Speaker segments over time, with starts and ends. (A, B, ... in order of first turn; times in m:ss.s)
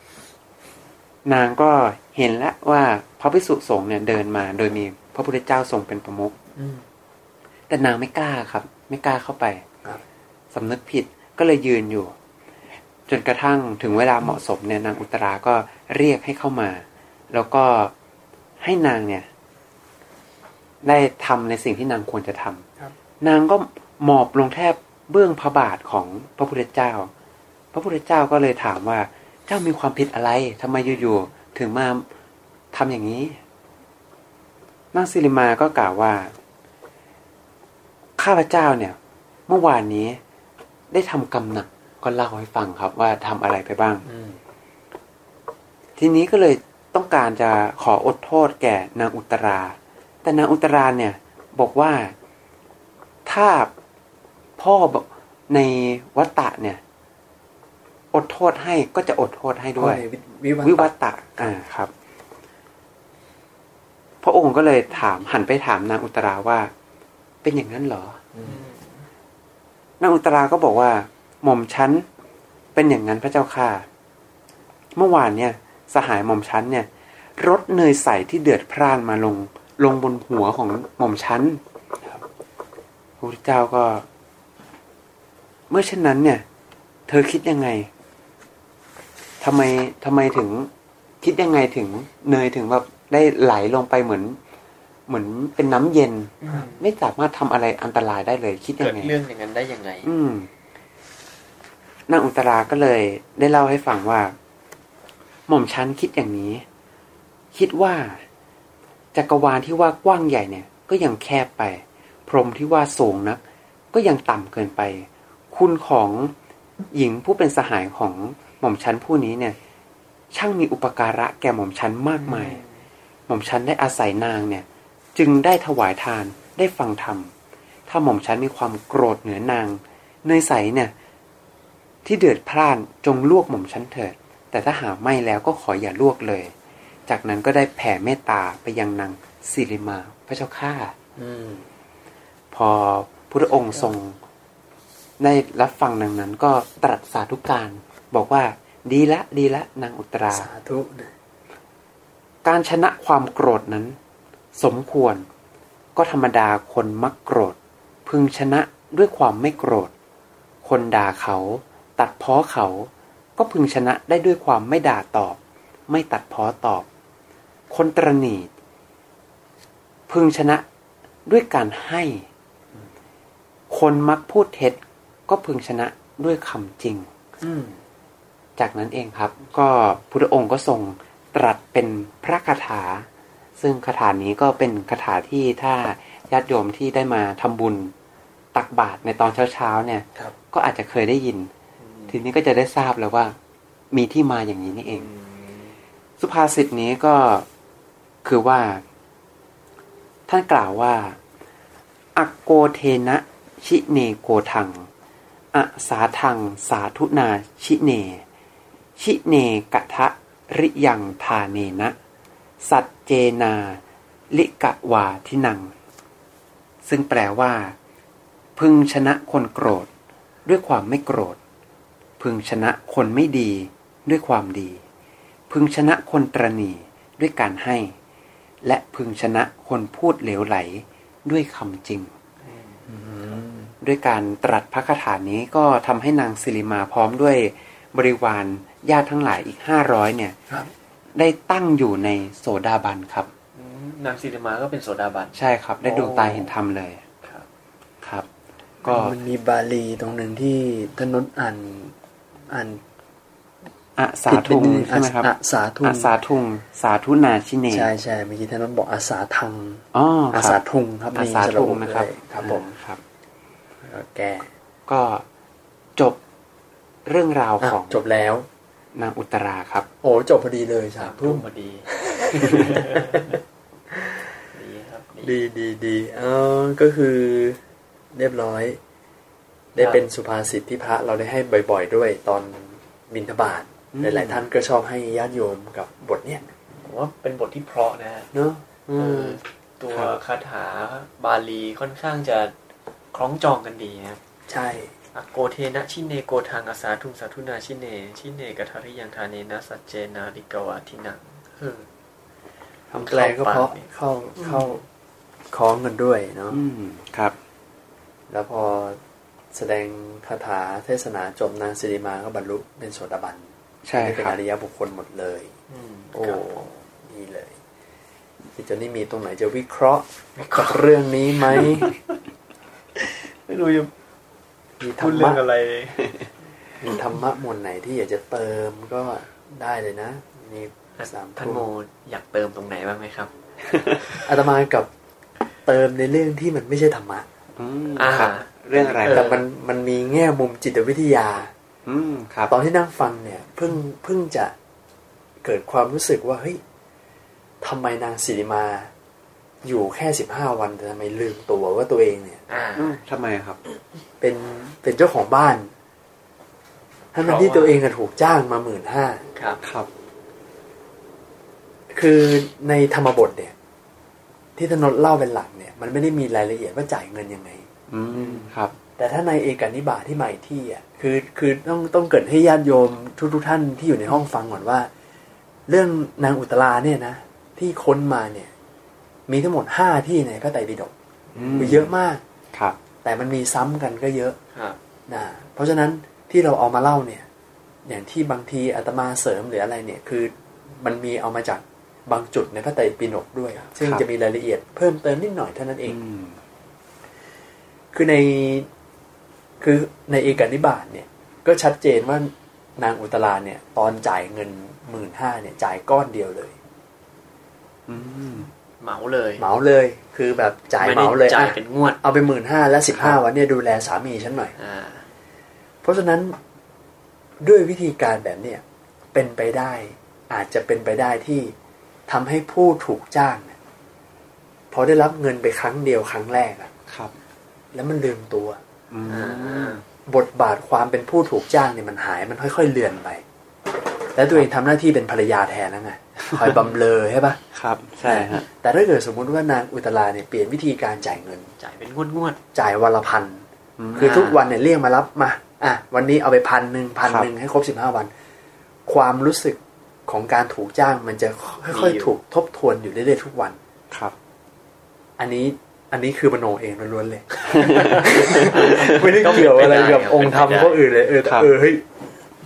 0:01.2-0:06.4 A
0:06.6-0:06.8 B
0:07.7-0:09.6 A
0:10.5-0:12.1 A
0:13.1-0:17.9 A
0:18.6-0:19.3 A
0:20.8-0:22.6 A
0:23.2-0:27.1 A
0:27.7-0:32.0 A
0:32.7-0:33.4 A
0:34.9-0:36.3 A
0:38.2-0:39.0 A
0:39.5-0:40.2 A
0:40.9-0:44.0 A
0:44.0-0:44.4 B
0:46.0-0:52.1 A
0:53.3-0:53.7 A
0:54.6-0:56.8 A
0:58.1-1:00.0 A
0:59.8-1:01.5 B
1:00.6-1:01.9 A
1:04.2-1:06.7 A
1:07.4-1:08.2 A
1:08.4-1:09.0 C
1:10.0-1:12.1 A
1:12.8-1:13.9 A
1:15.0-1:21.6 A
1:23.2-1:24.1 A
1:25.7-1:26.4 A
1:27.1-1:27.9 A
1:29.4-1:30.7 A
1:31.2-1:34.4 A
1:35.1-1:39.1 A
1:36.4-1:36.8 C
1:38.8-1:40.1 C
1:40.0-1:40.5 A
1:42.1-1:44.4 A
1:45.5-1:46.6 A
1:47.5-1:48.2 A
1:49.1-1:53.4 A
1:53.9-1:56.3 A
1:56.9-1:59.6 A
2:00.3-2:02.6 A
2:02.2-2:02.7 C
2:03.3-2:07.3 A
2:07.9-2:10.9 A
2:12.0-2:16.5 A
2:17.1-2:20.9 A
2:21.2-2:21.7 B
2:22.5-2:24.2 A
2:25.2-2:30.5 A
2:30.3-2:31.1 B
2:32.4-2:34.0 A
2:34.6-2:35.3 A
2:36.0-2:39.9 A
2:40.6-2:46.9 A
2:47.7-2:48.5 A
2:50.1-2:50.6 A
2:51.3-2:52.3 A
2:53.7-2:57.1 A
2:57.4-2:57.8 B
2:58.6-3:03.1 A
3:03.6-3:07.9 A
3:08.5-3:11.5 A
3:11.8-3:12.1 C
3:12.1-3:13.4 A
3:13.9-3:15.1 A
3:15.0-3:15.8 C
3:16.2-3:17.5 A
3:18.2-3:18.8 A
3:20.3-3:21.2 A
3:22.1-3:24.9 A
3:25.5-3:28.2 A
3:29.0-3:32.0 A
3:32.6-3:33.8 A
3:34.3-3:35.7 A
3:36.8-3:37.8 A
3:38.6-3:39.9 A
3:40.5-3:41.4 A
3:42.2-3:44.8 A
3:45.5-3:47.9 A
3:48.6-3:52.1 A
3:52.4-3:52.8 C
3:52.9-3:53.7 B
3:53.8-4:00.4 A
4:01.2-4:03.3 A
4:03.6-4:05.4 C
4:05.4-4:07.0 A
4:05.9-4:06.4 B
4:08.0-4:08.3 A
4:08.8-4:11.9 B
4:08.8-4:09.2 A
4:12.5-4:12.8 B
4:14.0-4:15.3 A
4:14.3-4:16.1 B
4:15.8-4:17.9 A
4:17.7-4:22.8 B
4:19.9-4:20.6 A
4:21.1-4:23.0 A
4:23.8-4:24.5 B
4:24.9-4:25.2 A
4:27.0-4:28.0 A
4:27.6-4:28.5 B
4:29.0-4:29.9 A
4:30.0-4:33.4 B
4:31.0-4:33.4 C
4:34.5-4:35.4 C
4:35.2-4:37.6 B
4:38.1-4:38.8 B
4:39.8-4:46.5 B
4:43.9-4:44.4 A
4:46.7-4:48.3 C
4:48.3-4:49.4 B
4:48.9-4:52.5 C
4:53.1-4:54.2 C
4:54.5-4:54.9 B
4:55.1-5:01.9 C
5:02.9-5:04.8 B
5:02.9-5:03.9 C
5:04.4-5:04.8 C
5:05.5-5:06.6 B
5:06.5-5:07.4 A
5:08.3-5:09.0 B
5:09.5-5:15.5 B
5:13.9-5:14.4 A
5:15.7-5:16.8 C
5:16.1-5:17.6 B
5:18.6-5:22.0 B
5:20.4-5:20.9 C
5:21.4-5:22.2 C
5:23.0-5:23.9 C
5:24.8-5:25.4 B
5:25.0-5:26.3 C
5:26.8-5:31.7 B
5:31.0-5:33.3 C
5:34.1-5:34.9 B
5:35.7-5:37.3 B
5:37.6-5:39.3 A
5:38.0-5:39.4 C
5:39.1-5:41.5 B
5:41.9-5:42.5 A
5:42.5-5:44.5 B
5:45.4-5:46.6 B
5:47.6-5:48.9 B
5:49.6-5:52.4 B
5:52.5-5:53.0 C
5:52.8-5:53.6 A
5:54.2-5:55.7 B
5:57.1-5:59.3 B
5:57.2-5:57.8 C
5:59.4-5:59.6 C
5:59.6-5:59.9 A
6:01.9-6:03.5 B
6:04.6-6:07.7 B
6:07.9-6:08.8 A
6:09.0-6:14.9 B
6:15.7-6:18.5 B
6:19.3-6:20.9 B
6:21.4-6:21.8 C
6:21.4-6:21.9 A
6:21.6-6:22.2 B
6:22.5-6:22.8 A
6:23.0-6:24.4 B
6:24.5-6:24.8 C
6:25.1-6:27.3 B
6:27.9-6:36.0 B
6:35.9-6:36.4 A
6:37.9-6:38.7 B
6:39.6-6:46.6 B
6:47.9-6:48.5 A
6:48.8-6:49.5 C
6:49.4-6:54.6 B
6:50.8-6:52.0 C
6:54.6-6:55.1 C
6:55.8-6:56.4 B
6:57.4-6:58.6 B
6:59.1-7:01.5 B
7:02.1-7:03.6 B
7:04.7-7:06.7 B
7:06.9-7:07.1 A
7:07.7-7:08.6 B
7:08.9-7:09.8 A
7:09.1-7:09.8 C
7:10.1-7:13.2 B
7:14.1-7:17.4 B
7:17.5-7:18.4 A
7:18.0-7:21.5 B
7:21.6-7:22.4 C
7:22.5-7:23.4 B
7:23.8-7:24.3 A
7:24.0-7:28.1 B
7:24.0-7:24.4 C
7:28.9-7:33.6 B
7:31.7-7:32.1 C
7:35.2-7:41.8 B
7:37.5-7:39.2 A
7:37.6-7:40.8 C
7:41.2-7:41.5 A